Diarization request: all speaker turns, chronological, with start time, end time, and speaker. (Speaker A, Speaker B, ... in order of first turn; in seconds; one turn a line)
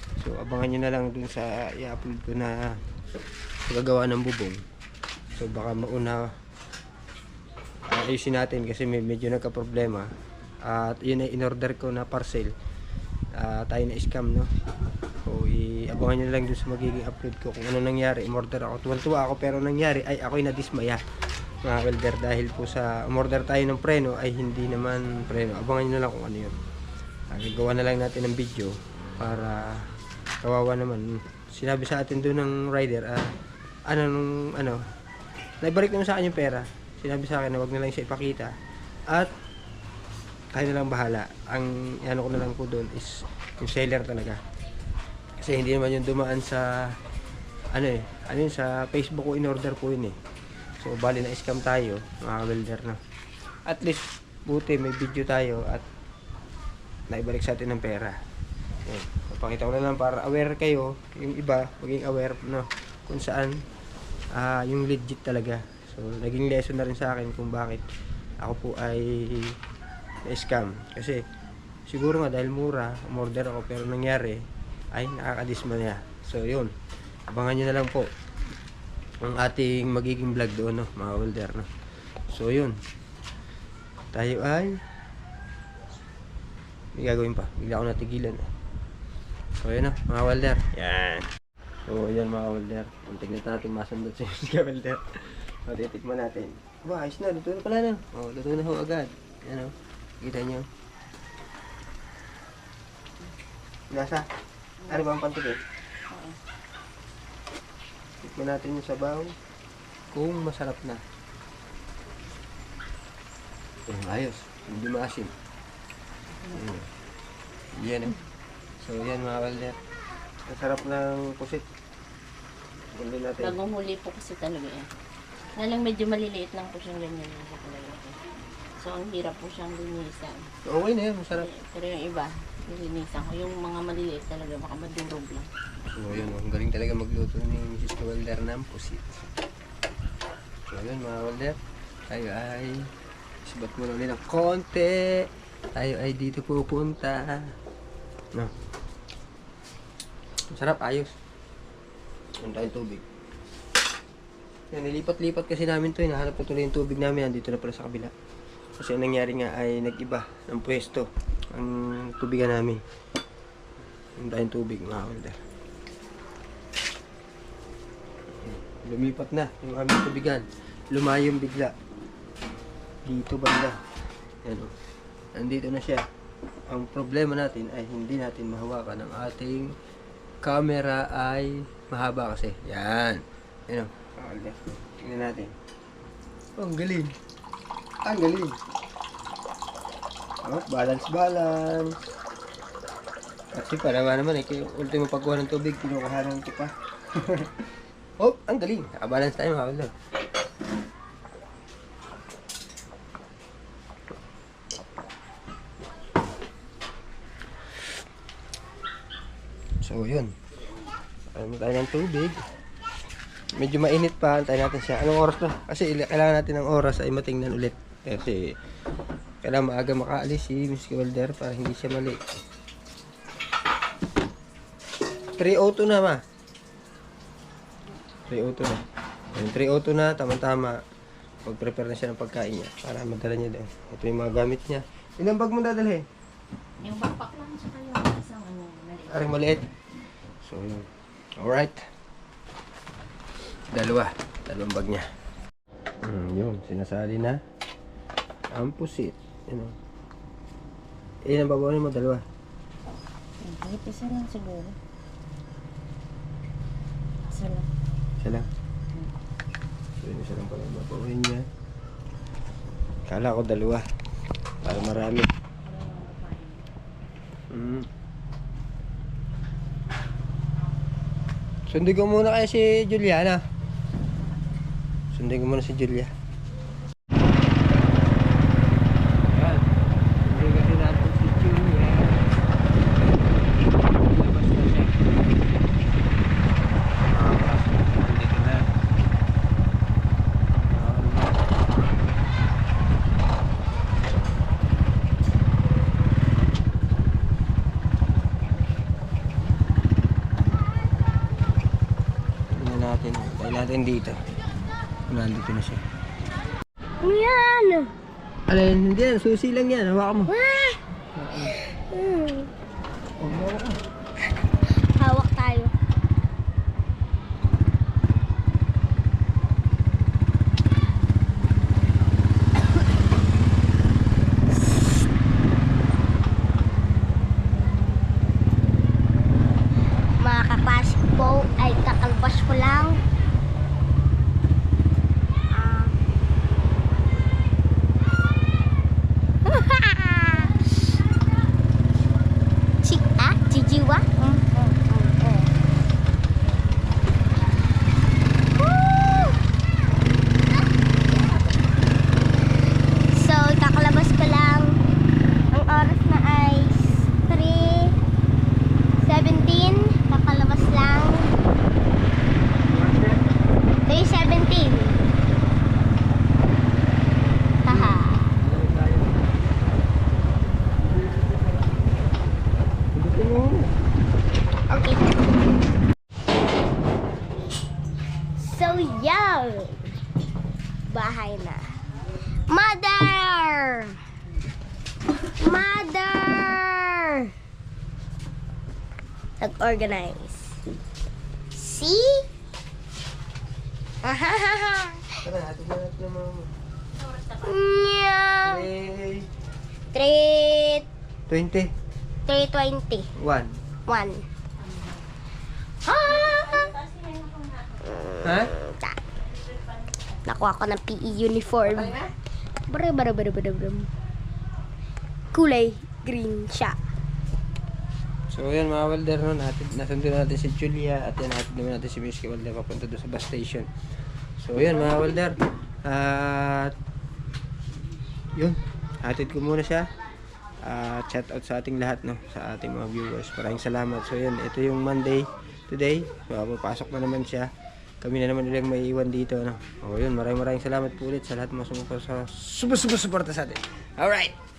Speaker A: 0.2-2.8
Speaker A: 3.7-4.6
Speaker A: 5.4-6.3
Speaker A: 7.9-10.1
Speaker A: 10.6-12.5
Speaker A: 13.3-14.5
Speaker A: 15.2-21.0
Speaker A: 21.6-26.6
Speaker A: 27.3-29.8
Speaker A: 30.4-33.2
Speaker A: 33.9-34.8
Speaker A: 35.6-38.5
Speaker A: 40.5-44.4
Speaker A: 45.4-46.9
Speaker A: 47.7-50.1
Speaker A: 50.8-53.0
Speaker A: 53.6-55.9
Speaker A: 57.1-58.1
Speaker A: 58.9-63.5
Speaker A: 64.3-67.8
Speaker A: 68.4-69.6
Speaker A: 70.2-71.2
Speaker A: 71.9-74.4
Speaker A: 74.9-76.7
Speaker A: 77.3-78.1
Speaker A: 79.2-81.7
Speaker A: 82.3-82.8
Speaker A: 84.1-84.7
Speaker A: 86.9-88.5
Speaker A: 89.6-91.3
Speaker A: 91.8-100.7
Speaker A: 103.9-104.2
Speaker A: 104.9-105.6
Speaker B: 106.1-106.4
Speaker A: 108.2-109.3
Speaker A: 110.1-111.0
Speaker A: 113.9-115.3
Speaker A: 116.5-116.9
Speaker A: 117.8-118.2
Speaker A: 118.8-119.8
Speaker A: 120.5-121.6
Speaker A: 122.9-123.5
Speaker B: 123.4-124.9
Speaker B: 125.5-128.2
Speaker B: 128.8-130.4
Speaker A: 130.6-131.5
Speaker B: 131.3-135.5
Speaker A: 135.9-139.2
Speaker A: 140.7-141.6
Speaker A: 142.1-142.9
Speaker A: 143.4-147.5
Speaker A: 150.5-151.1
Speaker A: 152.4-153.0
Speaker A: 154.7-158.1
Speaker A: 158.8-162.8
Speaker A: 164.2-165.4
Speaker A: 168.4-171.7
Speaker A: 173.1-173.8
Speaker A: 174.4-174.7
Speaker A: 175.3-176.0
Speaker A: 176.7-179.7
Speaker A: 180.4-185.5
Speaker A: 186.6-187.1
Speaker A: 188.0-188.5
Speaker A: 190.4-191.9
Speaker A: 193.5-197.7
Speaker A: 198.2-199.9
Speaker A: 209.8-210.3
Speaker A: 211.3-212.4
Speaker A: 213.6-218.5
Speaker A: 219.4-222.2
Speaker A: 225.4-226.2
Speaker A: 228.3-228.8
Speaker A: 229.3-230.8
Speaker A: 231.4-236.0
Speaker B: 236.8-239.3
Speaker A: 239.1-239.6
Speaker A: 240.4-241.8
Speaker A: 243.7-245.1
Speaker A: 246.0-247.4
Speaker A: 248.5-249.7
Speaker A: 251.3-252.2
Speaker B: 253.4-254.8
Speaker B: 257.3-257.7
Speaker A: 258.2-258.4
Speaker A: 260.0-261.4
Speaker A: 263.1-263.8
Speaker A: 264.6-265.3
Speaker B: 265.6-266.6
Speaker A: 267.5-267.9
Speaker A: 271.7-273.4
Speaker A: 275.1-276.1
Speaker A: 279.3-279.6
Speaker A: 280.2-282.2
Speaker A: 284.0-285.1
Speaker A: 287.1-288.7
Speaker A: 290.5-291.4
Speaker A: 302.5-304.2
Speaker A: 305.1-305.8
Speaker C: 307.0-307.9
Speaker A: 308.5-310.3
Speaker C: 310.3-310.8
Speaker A: 311.1-311.5
Speaker C: 311.5-312.5
Speaker A: 313.2-313.8
Speaker C: 315.0-315.7
Speaker C: 330.2-333.0
Speaker C: 335.5-335.9
Speaker C: 339.4-340.7
Speaker C: 342.8-345.5
Speaker C: 348.6-349.4
Speaker C: 350.5-351.6
Speaker C: 353.1-354.8
Speaker C: 355.5-357.9
Speaker C: 359.0-361.4
Speaker A: 362.7-363.2
Speaker C: 363.9-365.0
Speaker C: 367.6-368.4
Speaker A: 367.7-369.1
Speaker A: 372.9-373.7
Speaker C: 374.7-375.0
Speaker C: 378.4-379.8
Speaker C: 380.9-381.6
Speaker C: 382.5-383.9
Speaker C: 385.4-387.3
Speaker C: 389.4-390.6
Speaker C: 391.5-392.2
Speaker C: 394.0-395.2
Speaker A: 395.2-396.5
Speaker C: 397.4-398.7
Speaker A: 398.4-399.3
Speaker C: 399.9-400.9
Speaker A: 401.3-401.7
Speaker C: 402.3-403.1
Speaker A: 403.2-403.5
Speaker C: 403.9-404.2
Speaker C: 405.8-406.7
Speaker B: 406.0-407.9
Speaker C: 407.9-409.0
Speaker A: 408.2-408.5
Speaker C: 410.2-412.0
Speaker C: 412.7-413.9
Speaker C: 415.3-416.8
Speaker A: 418.3-423.7
Speaker A: 424.4-426.7
Speaker A: 428.4-429.9
Speaker A: 430.6-437.5
Speaker A: 438.0-444.3